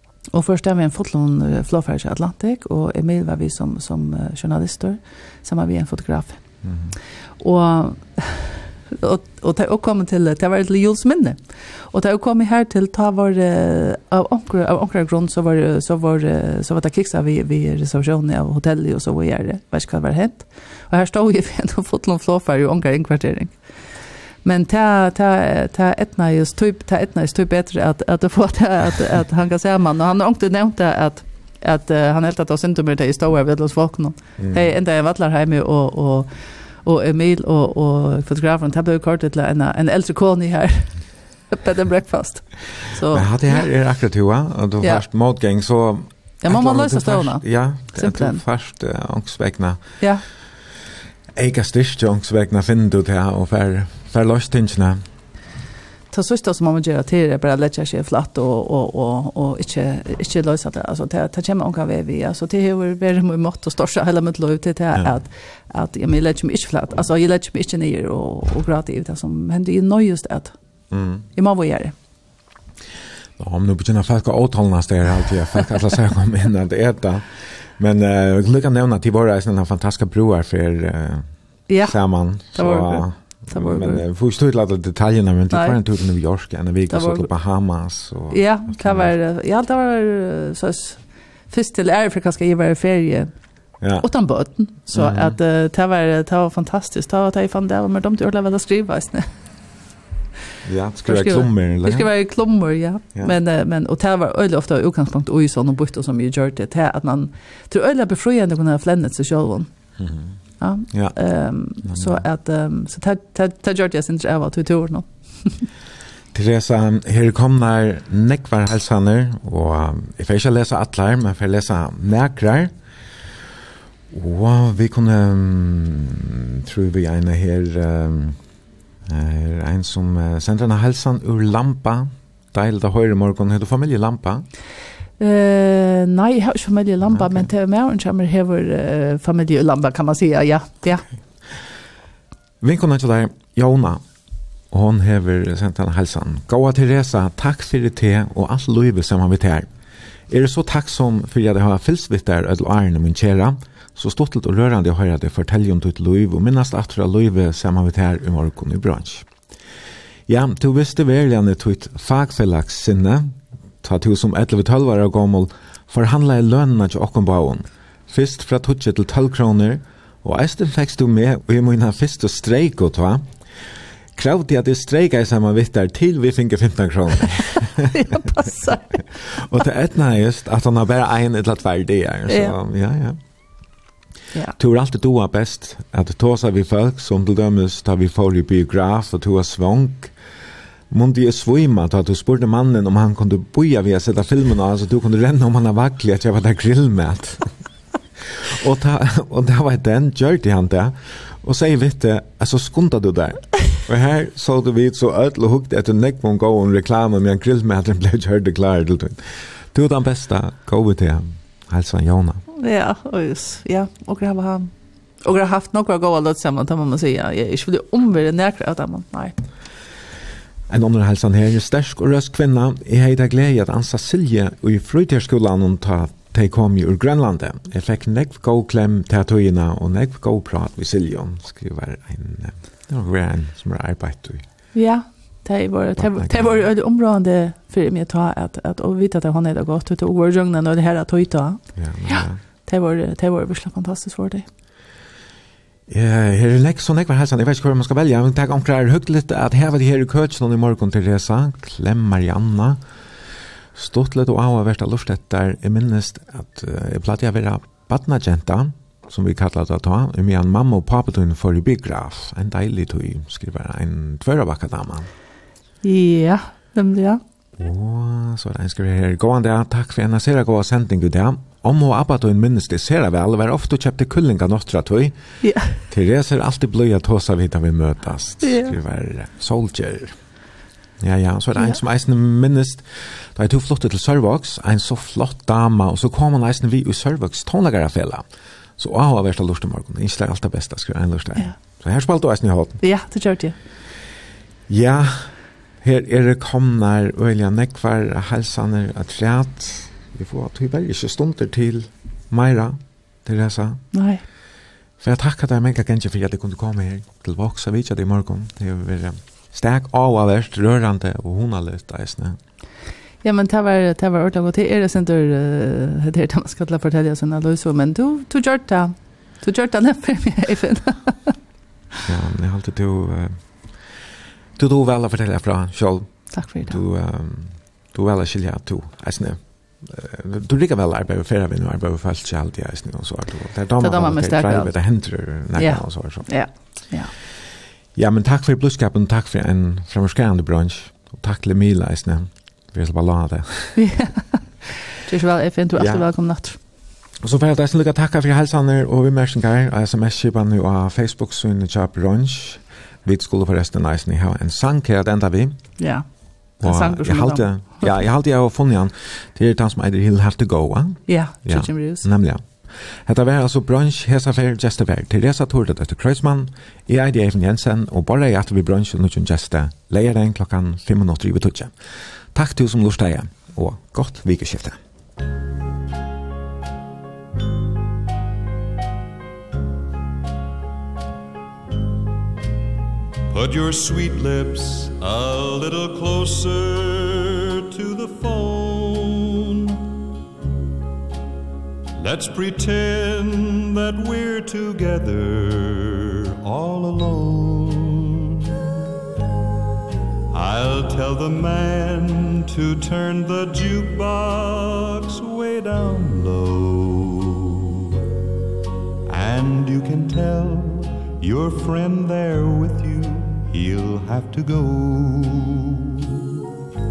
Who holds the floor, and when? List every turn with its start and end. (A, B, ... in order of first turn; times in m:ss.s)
0:00.3-0:06.4 A
0:06.6-0:07.0 B
0:07.4-0:23.6 A
0:24.4-0:43.7 A
0:34.4-0:34.6 B
0:43.1-0:50.0 B
0:46.4-0:48.4 A
0:51.3-0:55.0 B
0:56.1-1:10.5 A
1:10.9-1:11.2 B
1:11.4-1:11.9 A
1:13.4-1:29.1 B
1:21.7-1:24.0 A
1:25.5-1:25.8 A
1:26.9-1:27.3 A
1:28.3-1:33.3 A
1:33.8-1:34.0 B
1:34.0-1:39.3 A
1:34.9-1:35.4 B
1:40.6-1:42.1 B
1:41.0-1:49.7 A
1:50.0-1:50.4 B
1:50.6-1:55.7 A
1:50.9-1:51.2 B
1:51.8-1:52.2 B
1:56.3-2:02.8 B
2:04.1-2:08.4 B
2:09.0-2:14.5 B
2:15.2-2:21.1 A
2:17.1-2:17.5 B
2:22.6-2:24.0 B
2:24.7-2:29.7 B
2:30.3-2:39.3 B
2:40.3-2:53.3 B
2:54.1-2:58.1 B
2:57.9-2:59.0 A
2:58.9-3:03.2 B
3:02.3-3:02.5 A
3:04.6-3:10.2 B
3:10.9-3:17.5 B
3:18.2-3:32.4 B
3:32.5-3:39.4 A
3:40.7-3:54.5 B
3:54.7-4:04.4 A
3:56.0-3:56.5 B
4:01.7-4:02.4 B
4:05.9-4:12.8 B
4:13.7-4:25.1 B
4:25.8-4:27.2 A
4:27.6-4:35.1 B
4:35.4-4:35.8 A
4:35.8-4:40.2 B
4:38.4-4:38.7 A
4:41.0-4:48.2 B
4:48.8-4:52.8 B
4:52.8-4:53.6 A
4:54.7-5:03.8 B
5:03.9-5:04.2 A
5:05.0-5:12.4 B
5:13.2-5:21.4 A
5:22.0-5:24.0 B
5:24.6-5:36.3 B
5:26.3-5:26.8 A
5:33.8-5:34.7 A
5:35.5-5:37.1 A
5:37.9-5:43.8 B
5:43.8-5:46.6 A
5:45.7-5:46.0 B
5:47.2-5:55.8 B
5:55.8-5:58.0 A
5:56.6-6:14.8 B
6:01.1-6:02.1 A
6:23.3-6:29.8 C
6:32.0-6:38.8 C
6:40.3-6:48.0 C
6:49.1-6:56.4 C